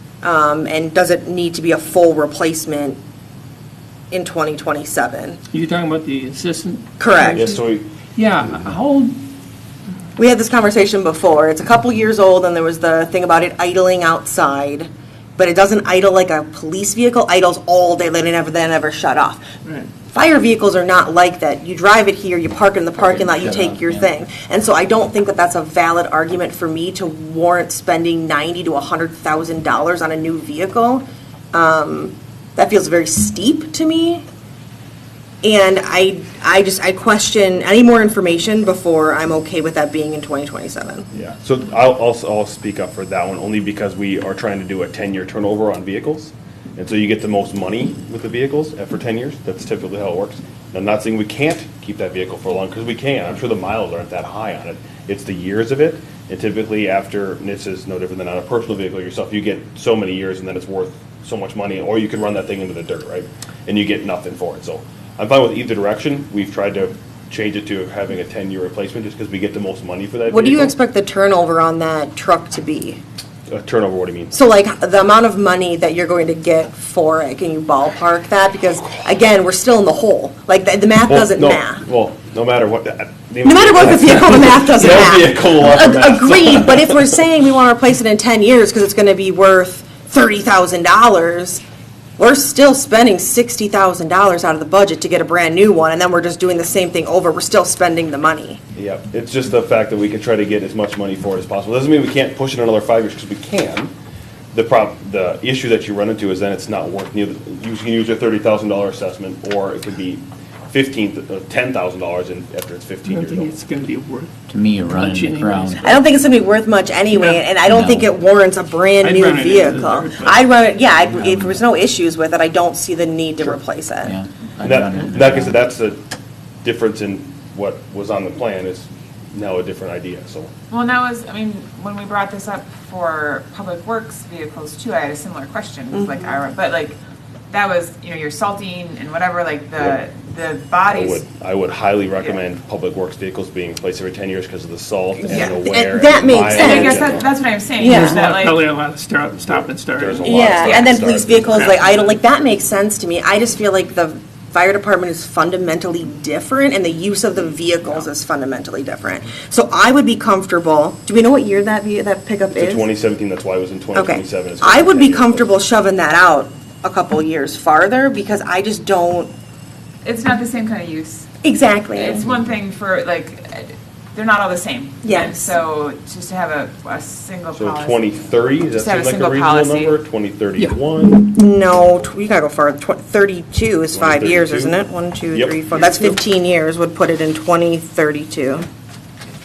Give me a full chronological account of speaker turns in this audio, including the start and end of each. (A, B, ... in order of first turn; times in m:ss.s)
0:00.2-0:03.0 A
0:04.1-0:05.4 A
0:05.5-0:07.5 B
0:07.0-0:07.6 A
0:07.3-0:07.9 C
0:08.2-0:09.2 B
0:10.2-0:19.5 A
0:19.6-0:19.9 B
0:20.0-0:34.2 A
0:23.0-0:24.1 D
0:35.4-0:41.1 A
0:41.1-1:10.7 C
1:10.3-1:13.0 A
1:13.5-1:14.3 C
1:14.3-1:21.8 A
1:21.1-1:27.1 C
1:23.4-1:31.6 A
1:32.2-1:38.6 A
1:38.8-1:43.9 C
1:44.5-1:53.6 C
1:53.0-1:54.3 B
1:54.5-1:56.0 D
1:54.9-1:55.8 B
1:55.8-2:04.1 A
1:57.1-1:57.5 B
1:57.6-1:58.1 D
1:59.0-2:00.4 B
2:01.0-2:01.6 D
2:04.0-2:05.7 D
2:04.6-2:06.0 C
2:06.6-2:10.5 C
2:10.7-2:17.0 E
2:17.5-2:21.2 E
2:20.9-2:27.4 C
2:25.2-2:27.3 A
2:25.3-2:25.5 E
2:26.5-2:28.6 E
2:27.8-2:28.2 A
2:27.8-2:30.5 B
2:29.5-2:32.1 C
2:30.2-2:42.9 A
2:30.6-2:30.9 E
2:42.5-2:45.5 C
2:44.0-2:49.3 A
2:50.0-2:51.3 E
2:51.4-2:52.2 A
2:51.9-3:00.0 E
2:55.0-2:55.6 A
2:57.5-3:01.4 C
3:01.3-3:08.7 A
3:03.9-3:04.8 C
3:05.3-3:06.2 C